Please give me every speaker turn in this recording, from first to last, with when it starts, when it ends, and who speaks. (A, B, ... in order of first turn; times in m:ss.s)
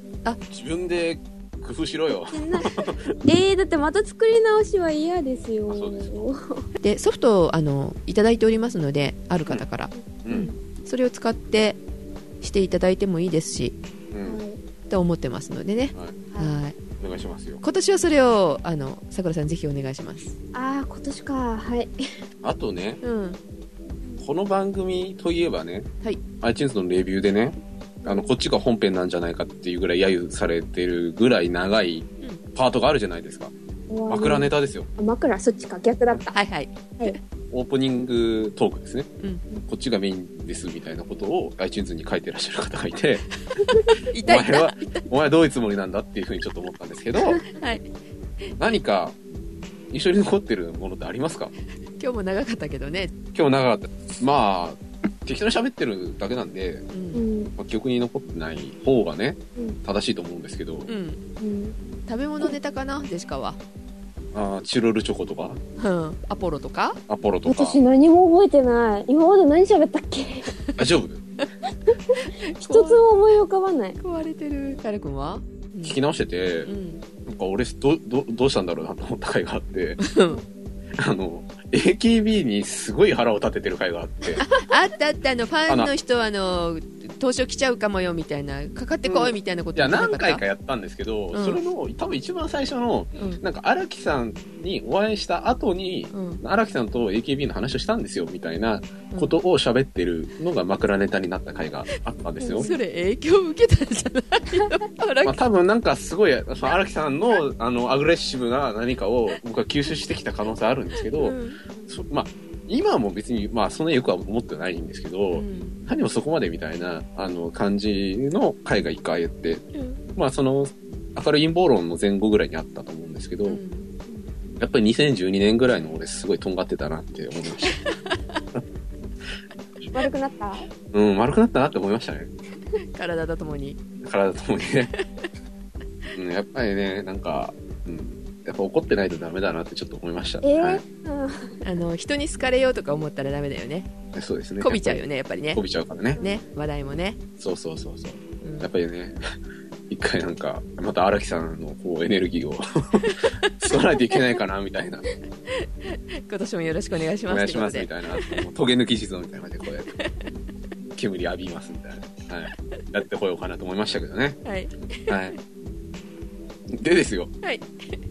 0:00.5-0:03.2 A
0:02.3-0:06.6 B
0:05.7-0:06.2 A
0:06.8-0:11.8 C
0:09.9-0:10.6 B
0:12.4-0:13.8 C
0:14.1-0:14.4 A
0:14.2-0:14.6 B
0:14.9-0:16.8 C
0:16.3-0:16.6 B
0:17.0-0:17.6 A
0:17.6-0:20.4 C
0:20.5-0:21.9 B
0:22.4-0:23.0 A
0:23.0-0:23.4 C
0:24.2-0:25.9 A
0:26.4-0:33.5 A
0:28.0-0:28.3 B
0:33.9-0:36.4 B
0:34.1-0:34.9 A
0:36.3-0:37.2 C
0:37.5-0:39.1 A
0:39.7-0:43.2 A
0:44.1-0:45.1 C
0:44.2-0:47.4 A
0:47.5-0:47.9 C
0:48.6-0:49.2 A
0:49.9-0:51.5 A
0:52.0-0:53.1 C
0:53.3-0:56.9 A
0:56.9-0:57.2 C
0:57.1-0:57.5 B
0:57.6-1:00.9 A
1:00.9-1:01.2 C
1:01.4-1:01.8 B
1:02.1-1:03.6 C
1:04.3-1:05.6 A
1:05.8-1:07.0 C
1:07.1-1:07.8 A
1:07.4-1:10.5 B
1:10.8-1:11.2 A
1:11.9-1:14.0 B
1:12.2-1:13.0 C
1:14.0-1:16.0 C
1:15.8-1:16.7 A
1:16.7-1:17.0 C
1:17.2-1:20.0 A
1:20.0-1:20.4 C
1:21.0-1:24.4 A
1:24.4-1:30.4 C
1:29.0-1:42.7 A
1:31.3-1:31.6 C
1:36.1-1:36.4 C
1:42.4-1:42.8 B
1:42.6-1:45.4 C
1:45.2-1:51.4 A
1:51.2-1:51.6 C
1:51.9-2:03.6 A
1:55.3-1:55.8 C
1:59.8-2:00.0 C
2:03.4-2:03.9 C
2:04.6-2:07.8 A
2:07.7-2:08.4 C
2:09.9-2:10.7 B
2:10.9-2:12.3 A
2:12.9-2:13.8 C
2:14.0-2:14.9 A
2:16.2-2:20.8 A
2:20.4-2:21.6 B
2:21.6-2:23.9 C
2:24.1-2:26.2 A
2:24.6-2:25.6 C
2:26.2-2:26.4 B
2:26.2-2:27.2 C
2:27.4-2:29.2 A
2:28.4-2:28.7 C
2:29.9-2:35.1 A
2:33.0-2:33.5 C
2:35.5-2:38.4 C
2:37.3-2:39.9 A
2:41.0-2:44.4 A
2:44.4-2:45.4 C
2:45.1-2:45.4 A
2:46.7-2:47.3 A